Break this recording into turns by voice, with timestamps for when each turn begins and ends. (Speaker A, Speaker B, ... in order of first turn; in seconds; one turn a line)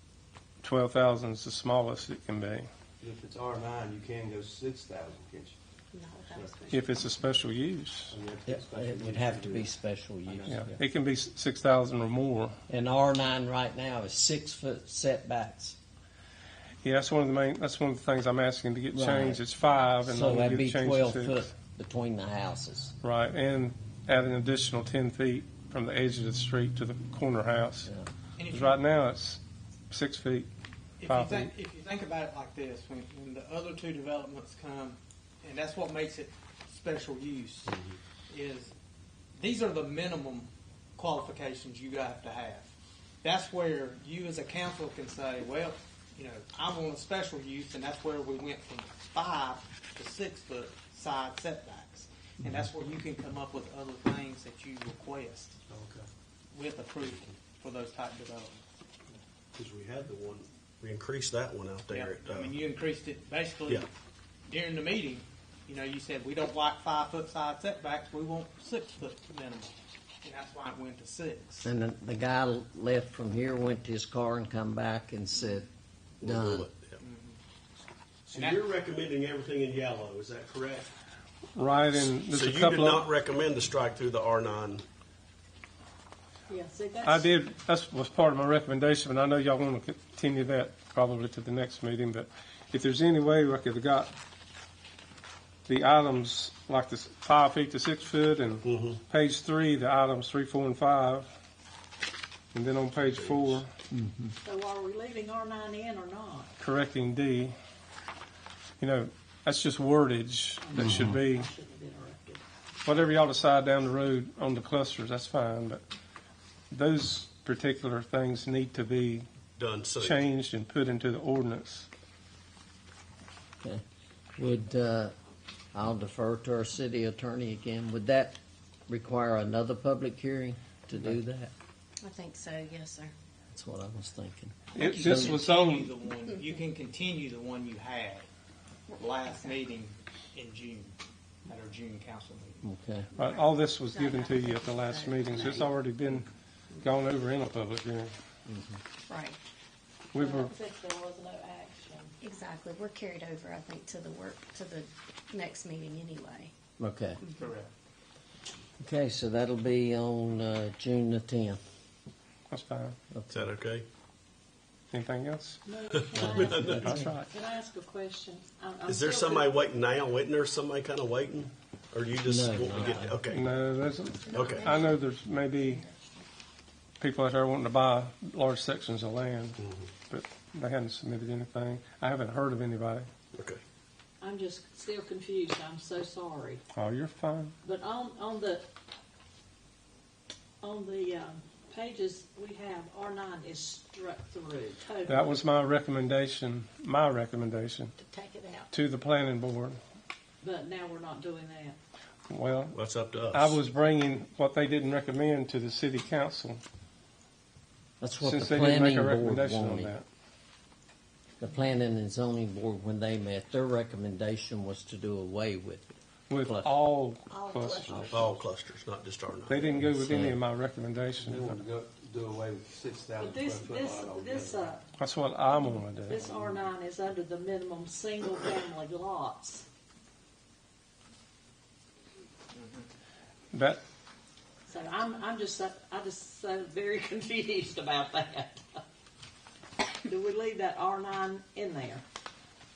Speaker A: 0.6-2.7
Speaker B: 3.0-5.5
Speaker C: 5.9-6.7
Speaker B: 6.3-6.8
Speaker A: 6.7-8.1
Speaker B: 8.1-9.7
Speaker D: 8.5-10.8
Speaker B: 10.2-10.7
Speaker A: 10.5-12.6
Speaker D: 12.7-15.8
Speaker A: 16.8-21.4
Speaker D: 18.9-19.4
Speaker D: 20.0-22.9
Speaker A: 23.0-27.9
Speaker E: 28.4-28.8
Speaker A: 28.5-30.5
Speaker E: 31.0-37.7
Speaker A: 31.1-31.5
Speaker E: 38.3-38.7
Speaker E: 39.3-42.7
Speaker E: 43.2-55.5
Speaker B: 55.7-56.0
Speaker E: 56.5-58.6
Speaker F: 59.5-62.5
Speaker E: 61.9-63.9
Speaker E: 64.5-71.7
Speaker D: 71.6-75.7
Speaker F: 76.2-77.0
Speaker D: 76.2-76.7
Speaker E: 77.0-77.4
Speaker F: 78.3-80.9
Speaker E: 78.3-78.6
Speaker A: 81.5-83.0
Speaker F: 81.9-84.8
Speaker G: 86.5-87.3
Speaker A: 87.0-94.1
Speaker A: 95.7-101.3
Speaker F: 98.6-99.0
Speaker A: 102.5-103.7
Speaker F: 102.9-103.6
Speaker B: 104.0-104.3
Speaker G: 104.4-106.5
Speaker A: 106.6-107.5
Speaker A: 108.8-111.5
Speaker G: 110.6-112.4
Speaker A: 112.8-115.8
Speaker A: 116.7-119.3
Speaker F: 119.6-120.2
Speaker A: 120.0-121.9
Speaker D: 124.4-125.1
Speaker D: 125.7-131.5
Speaker C: 132.0-133.1
Speaker D: 133.5-135.4
Speaker A: 134.8-135.9
Speaker E: 134.8-138.2
Speaker C: 138.9-139.6
Speaker E: 139.0-142.6
Speaker D: 142.6-143.1
Speaker C: 143.2-145.7
Speaker A: 143.2-146.3
Speaker A: 146.8-148.1
Speaker D: 148.5-148.8
Speaker C: 149.1-149.3
Speaker A: 150.1-150.5
Speaker G: 150.1-152.2
Speaker C: 152.2-156.5
Speaker D: 156.8-157.2
Speaker E: 157.3-157.7
Speaker D: 158.8-161.6
Speaker A: 162.5-163.0
Speaker D: 163.1-163.4
Speaker F: 163.3-163.8
Speaker A: 164.9-165.6
Speaker G: 165.7-169.6
Speaker F: 166.1-167.0
Speaker D: 166.2-167.1
Speaker A: 166.5-167.3
Speaker F: 168.9-173.5
Speaker D: 172.2-173.2
Speaker A: 173.3-175.8
Speaker C: 174.2-176.2
Speaker F: 174.3-174.7
Speaker A: 177.0-183.1
Speaker F: 179.6-179.9
Speaker F: 183.3-183.6
Speaker G: 184.2-186.6
Speaker A: 186.8-187.5
Speaker G: 187.6-188.7
Speaker G: 190.6-195.3
Speaker A: 195.1-197.9
Speaker C: 198.0-198.7
Speaker A: 198.7-199.8
Speaker G: 200.4-201.8
Speaker A: 202.3-202.8
Speaker F: 202.7-203.6
Speaker A: 203.3-206.6
Speaker D: 208.0-209.9
Speaker A: 208.2-210.0
Speaker D: 211.4-216.7
Speaker A: 216.3-218.0
Speaker C: 217.3-218.3
Speaker F: 218.1-219.7
Speaker A: 219.5-221.6
Speaker D: 219.8-220.4
Speaker B: 221.2-224.7
Speaker G: 223.2-224.8
Speaker A: 225.0-226.2
Speaker G: 226.0-229.7
Speaker B: 226.2-226.6
Speaker E: 232.5-232.8
Speaker A: 233.5-233.8
Speaker G: 234.7-238.8
Speaker G: 240.1-242.0